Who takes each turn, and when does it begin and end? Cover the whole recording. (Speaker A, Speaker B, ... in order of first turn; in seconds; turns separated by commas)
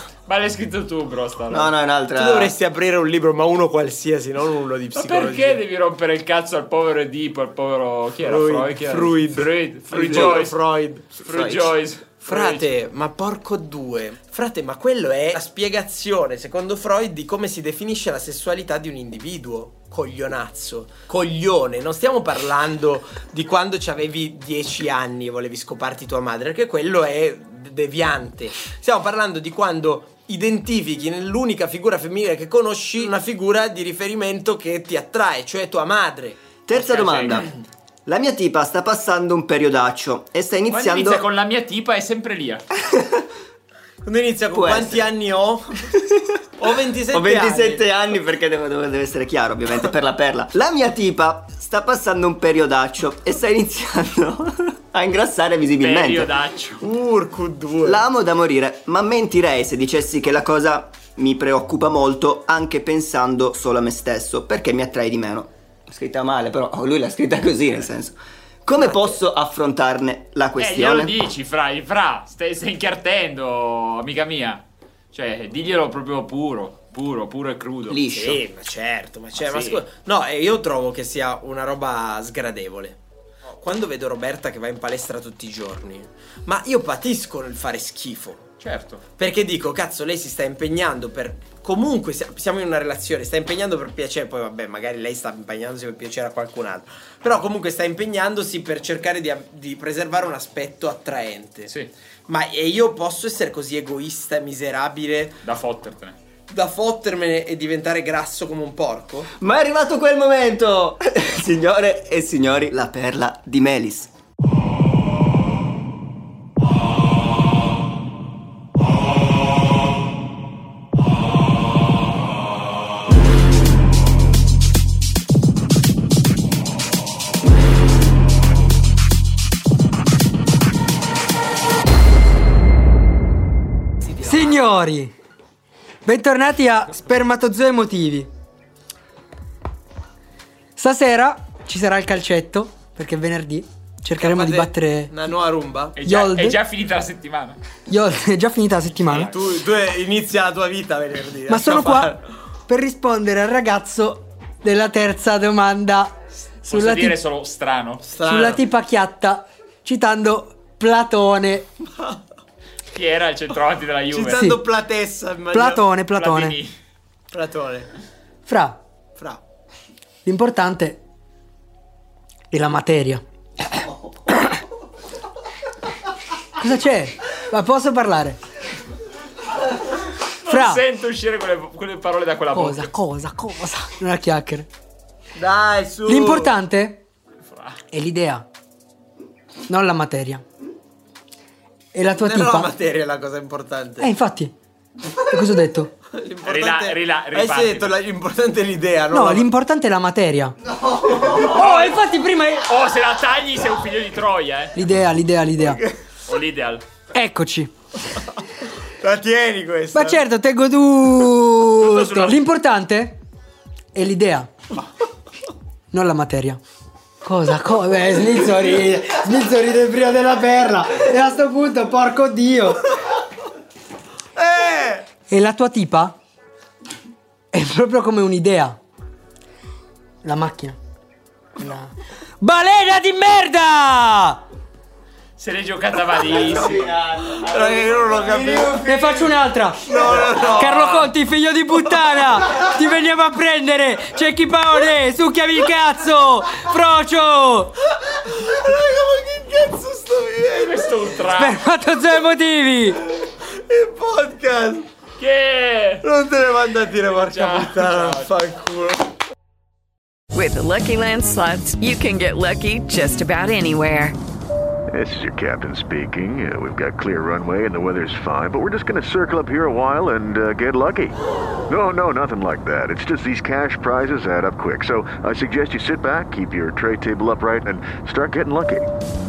Speaker A: 0.3-1.7, Speaker B: 1.5-2.5, Speaker C: 2.1-5.6, Speaker A: 4.9-10.6, Speaker C: 8.2-11.1, Speaker B: 9.9-10.3, Speaker A: 11.1-12.7, Speaker B: 11.3-11.7, Speaker C: 12.2-36.4, Speaker B: 36.6-37.5, Speaker A: 36.7-37.5, Speaker B: 38.0-41.2, Speaker A: 40.7-42.6, Speaker B: 42.8-43.2, Speaker C: 44.0-45.8, Speaker B: 44.5-45.1, Speaker C: 46.6-47.9, Speaker B: 47.1-56.3, Speaker A: 55.8-56.8, Speaker C: 56.8-58.0, Speaker B: 57.8-71.1, Speaker C: 68.8-69.2, Speaker A: 70.6-78.0, Speaker B: 77.9-78.4, Speaker C: 78.1-83.0, Speaker A: 79.4-79.8, Speaker C: 83.5-88.5, Speaker A: 88.6-89.0, Speaker C: 89.2-101.7, Speaker C: 102.3-105.4, Speaker A: 105.4-106.2, Speaker C: 106.5-109.3, Speaker B: 109.4-114.1, Speaker C: 134.1-134.5, Speaker D: 134.2-135.1, Speaker D: 136.0-138.3, Speaker A: 136.9-137.2, Speaker D: 140.8-145.2, Speaker C: 144.2-146.0, Speaker A: 146.0-147.6, Speaker D: 146.0-146.6, Speaker D: 147.9-149.3, Speaker A: 148.9-149.4, Speaker C: 149.2-152.2, Speaker D: 151.5-152.2, Speaker D: 152.7-157.2, Speaker A: 156.4-158.0, Speaker C: 158.0-158.6, Speaker D: 158.2-161.7, Speaker A: 162.9-164.4, Speaker C: 164.1-165.9, Speaker D: 164.3-164.6, Speaker D: 165.5-166.6, Speaker A: 166.2-166.7, Speaker C: 167.3-167.9, Speaker D: 168.4-168.8, Speaker C: 169.2-169.4, Speaker D: 170.2-171.0, Speaker D: 172.5-173.2, Speaker D: 176.6-178.4, Speaker A: 180.4-182.9, Speaker D: 180.5-180.8, Speaker D: 182.5-184.7, Speaker C: 185.3-186.5, Speaker D: 186.1-187.0, Speaker A: 187.4-187.8, Speaker D: 187.9-188.4, Speaker D: 189.7-190.4, Speaker D: 191.9-192.7, Speaker C: 192.1-194.1, Speaker D: 194.0-194.5, Speaker D: 195.3-195.9, Speaker C: 196.1-199.5, Speaker A: 196.4-198.0, Speaker D: 199.1-200.5, Speaker C: 201.0-201.4, Speaker D: 201.3-202.7, Speaker A: 201.4-202.0, Speaker A: 202.6-204.8, Speaker D: 204.8-205.8, Speaker C: 205.7-205.9, Speaker A: 206.2-206.8, Speaker D: 207.1-207.7, Speaker C: 209.0-210.2, Speaker D: 209.9-213.2, Speaker A: 211.8-212.4, Speaker D: 213.9-214.5, Speaker D: 215.9-216.6, Speaker D: 217.2-222.8, Speaker C: 224.4-225.1, Speaker D: 225.3-226.2, Speaker D: 227.5-228.8, Speaker D: 230.2-230.8, Speaker D: 231.6-234.4, Speaker A: 235.4-238.9, Speaker B: 236.2-239.2, Speaker C: 237.4-238.8, Speaker D: 238.8-247.7, Speaker C: 239.8-240.9, Speaker A: 240.0-241.1, Speaker C: 248.3-251.2, Speaker A: 250.5-251.6, Speaker D: 251.3-253.0, Speaker C: 253.0-254.8, Speaker A: 255.2-256.1, Speaker C: 256.0-259.1, Speaker A: 257.1-258.3, Speaker E: 260.3-264.1, Speaker F: 264.9-271.1, Speaker F: 271.7-278.8